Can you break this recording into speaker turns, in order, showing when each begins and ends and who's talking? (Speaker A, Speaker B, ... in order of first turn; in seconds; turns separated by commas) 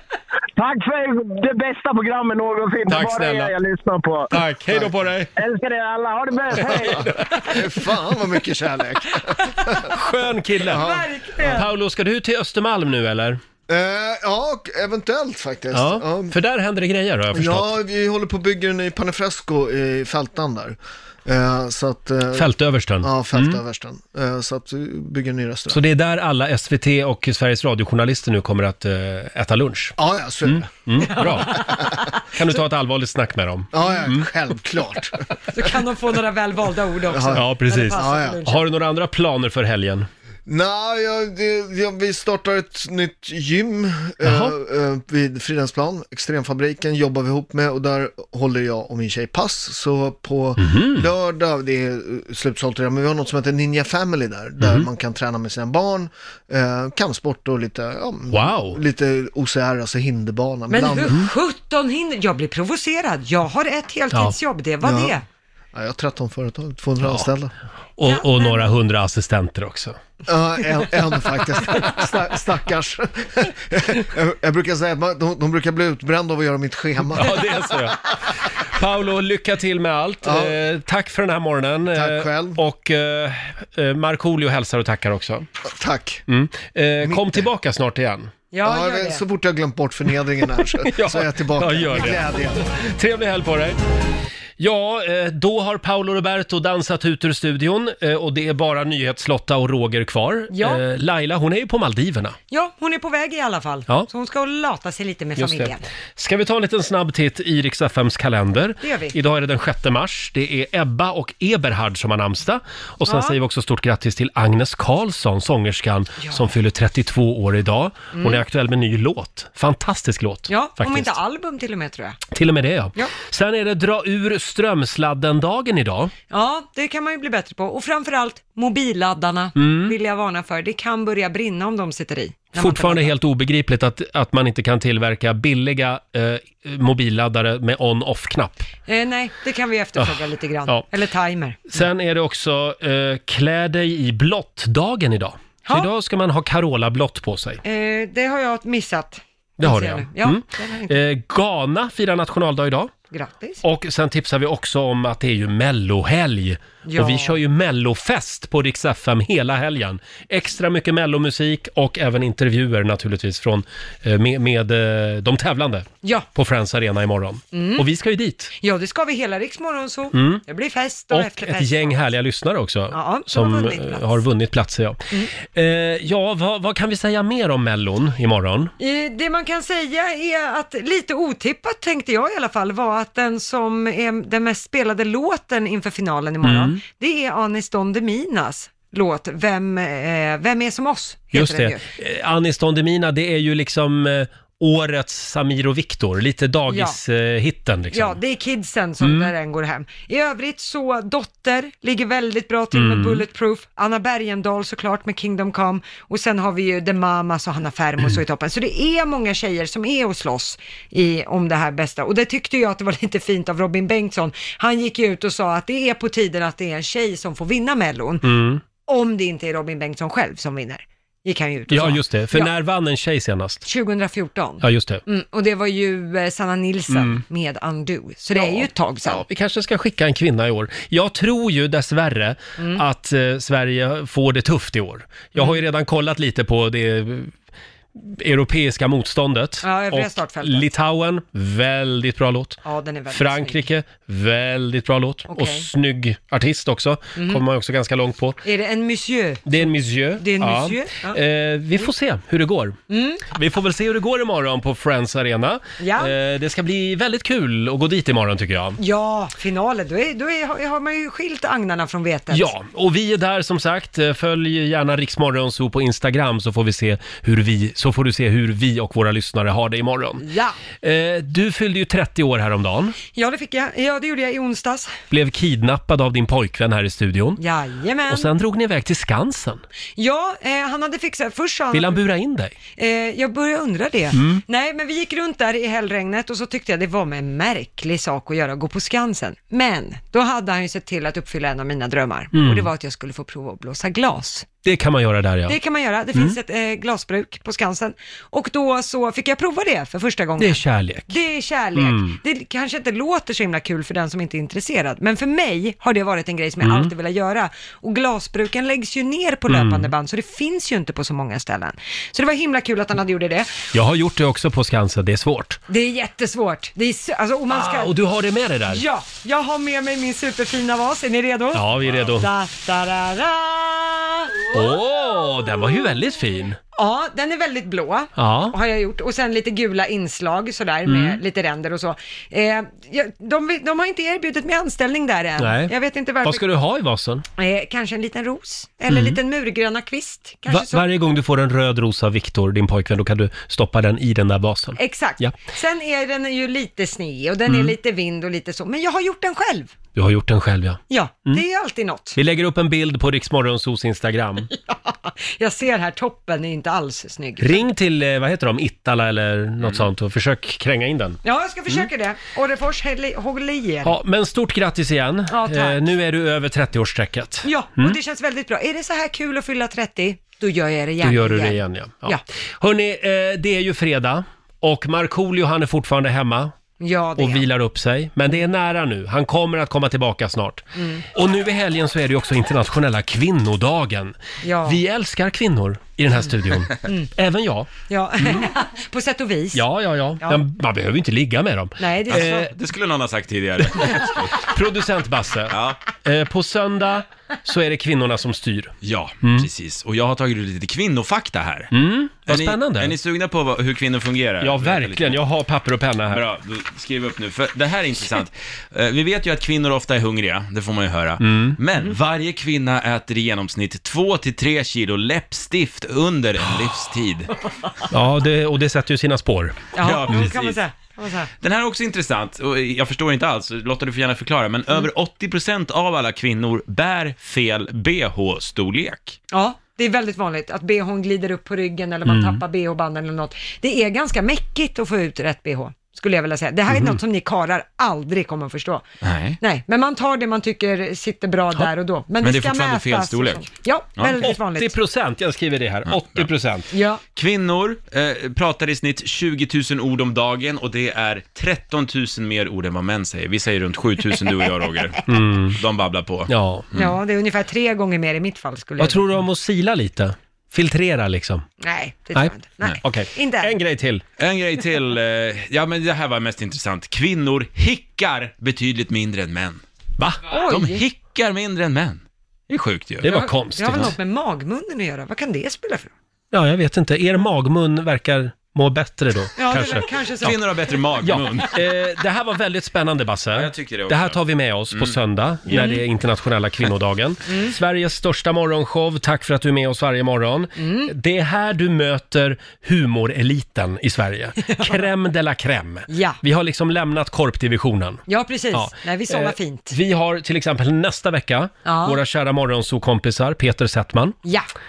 Speaker A: 0.6-4.3, Speaker B: 2.9-3.5, Speaker B: 4.3-5.3, Speaker C: 4.7-5.0, Speaker A: 5.3-7.2, Speaker B: 6.8-7.4, Speaker C: 6.9-9.9, Speaker B: 9.8-10.8, Speaker C: 10.6-11.6, Speaker D: 10.7-11.7, Speaker B: 11.5-13.4, Speaker C: 13.7-16.3, Speaker B: 15.7-17.8, Speaker C: 17.3-22.5, Speaker B: 22.3-23.6, Speaker C: 23.0-25.8, Speaker B: 25.7-31.7, Speaker C: 30.0-30.8, Speaker D: 31.0-31.9, Speaker B: 32.3-34.3, Speaker C: 33.7-35.2, Speaker D: 35.5-38.6, Speaker C: 37.1-38.4, Speaker B: 37.3-40.1, Speaker C: 40.5-61.2, Speaker B: 44.2-44.6, Speaker B: 50.6-51.1, Speaker B: 54.6-54.9, Speaker B: 58.3-58.8, Speaker D: 60.7-65.2, Speaker C: 64.8-65.2, Speaker C: 65.7-67.5, Speaker B: 67.0-67.3, Speaker B: 68.0-70.0, Speaker D: 68.0-68.7, Speaker C: 70.3-77.5, Speaker B: 77.2-85.5, Speaker C: 80.2-80.5, Speaker C: 81.9-82.6, Speaker C: 85.6-86.2, Speaker B: 86.3-88.3, Speaker C: 87.0-87.5, Speaker D: 88.5-89.2, Speaker C: 88.6-92.6, Speaker B: 90.8-93.8, Speaker B: 94.6-102.4, Speaker D: 100.5-100.8, Speaker D: 102.5-105.8, Speaker B: 105.4-121.2, Speaker D: 108.8-109.2, Speaker D: 113.0-113.3, Speaker D: 118.1-118.4, Speaker D: 120.5-122.2, Speaker B: 122.3-126.1, Speaker D: 126.3-133.1, Speaker B: 129.6-129.9, Speaker B: 132.5-138.6, Speaker D: 138.9-141.7, Speaker B: 141.7-147.6, Speaker D: 147.6-151.0, Speaker B: 149.6-152.9, Speaker D: 153.1-153.6, Speaker B: 153.6-168.5, Speaker D: 156.8-157.4, Speaker D: 167.5-167.8, Speaker D: 168.6-172.0, Speaker B: 170.1-170.4, Speaker B: 171.1-178.7, Speaker D: 172.9-174.1, Speaker D: 178.8-191.8, Speaker B: 186.4-186.8, Speaker B: 191.3-198.2, Speaker D: 196.7-197.0, Speaker D: 197.9-218.3, Speaker B: 199.0-199.3, Speaker B: 202.7-203.2, Speaker B: 218.2-218.6, Speaker D: 218.8-222.5, Speaker B: 221.7-223.6, Speaker D: 223.6-229.2, Speaker B: 224.6-225.0, Speaker B: 226.9-227.2, Speaker B: 228.3-237.3, Speaker D: 232.6-232.8, Speaker B: 238.0-242.6, Speaker D: 239.6-240.7, Speaker D: 242.6-243.6, Speaker B: 243.1-248.4, Speaker D: 245.3-245.6, Speaker D: 247.2-247.4, Speaker D: 248.4-249.6, Speaker B: 249.4-258.8, Speaker D: 250.2-251.2, Speaker D: 252.9-253.2, Speaker D: 255.8-256.1, Speaker D: 258.8-262.5, Speaker B: 262.3-270.2, Speaker D: 270.2-270.6, Speaker B: 270.8-273.0, Speaker D: 273.1-274.9, Speaker B: 275.1-277.4, Speaker D: 277.4-278.3, Speaker B: 278.1-279.6, Speaker D: 280.0-282.0, Speaker B: 281.7-282.5, Speaker D: 282.8-294.5, Speaker B: 284.1-284.4, Speaker B: 292.3-292.7, Speaker B: 294.6-295.6, Speaker D: 295.5-313.5, Speaker B: 300.4-301.1, Speaker B: 301.8-302.2, Speaker B: 306.6-306.9, Speaker B: 309.5-309.9, Speaker B: 313.7-315.6, Speaker D: 315.7-317.9, Speaker B: 317.5-318.8, Speaker D: 318.7-324.5, Speaker B: 321.5-322.3, Speaker B: 324.5-326.6, Speaker D: 326.8-336.4, Speaker B: 328.1-328.6, Speaker B: 330.9-331.2, Speaker B: 335.4-335.7, Speaker B: 336.2-337.2, Speaker D: 337.4-340.9, Speaker B: 338.9-339.2, Speaker B: 340.5-345.3, Speaker D: 344.8-349.7, Speaker B: 347.5-347.7, Speaker B: 349.9-351.4, Speaker D: 350.9-352.2, Speaker B: 352.1-354.5, Speaker D: 354.7-357.6, Speaker B: 357.4-361.9, Speaker D: 361.2-364.0, Speaker B: 363.8-368.0, Speaker D: 365.3-365.8, Speaker D: 367.4-372.2, Speaker B: 371.0-376.5, Speaker D: 376.8-377.4, Speaker B: 377.2-387.7, Speaker D: 380.8-381.0, Speaker D: 384.4-384.8, Speaker D: 386.8-387.1, Speaker D: 387.9-389.6, Speaker B: 389.5-392.5, Speaker D: 391.8-392.5, Speaker E: 392.1-394.4, Speaker B: 393.8-399.5, Speaker E: 395.5-395.8, Speaker E: 398.8-401.7, Speaker B: 401.7-402.9, Speaker E: 402.3-405.2, Speaker B: 404.4-406.2, Speaker E: 406.1-417.3, Speaker B: 411.2-411.6, Speaker B: 417.9-420.2, Speaker D: 419.7-421.3, Speaker E: 419.8-420.6, Speaker E: 421.4-429.2, Speaker D: 429.3-438.9, Speaker B: 432.1-432.4, Speaker B: 436.7-437.0, Speaker E: 439.0-439.4, Speaker D: 439.4-444.8, Speaker E: 442.2-444.3, Speaker B: 444.2-446.7, Speaker E: 445.9-446.3, Speaker D: 446.7-447.0, Speaker E: 447.1-456.9, Speaker B: 455.1-455.6, Speaker B: 456.3-456.7, Speaker D: 456.7-459.1, Speaker B: 458.8-461.4, Speaker D: 461.6-463.5, Speaker B: 462.1-464.0, Speaker E: 464.2-469.6, Speaker D: 470.3-470.8, Speaker E: 470.4-473.1, Speaker B: 473.0-473.9, Speaker D: 473.0-475.9, Speaker B: 476.3-479.9, Speaker D: 479.4-480.4, Speaker E: 480.2-481.6, Speaker B: 481.0-504.2, Speaker E: 483.3-484.2, Speaker E: 484.7-484.9, Speaker D: 487.3-487.5, Speaker D: 490.6-490.9, Speaker D: 494.4-494.8, Speaker D: 495.9-496.2, Speaker D: 498.1-499.7, Speaker D: 501.6-502.0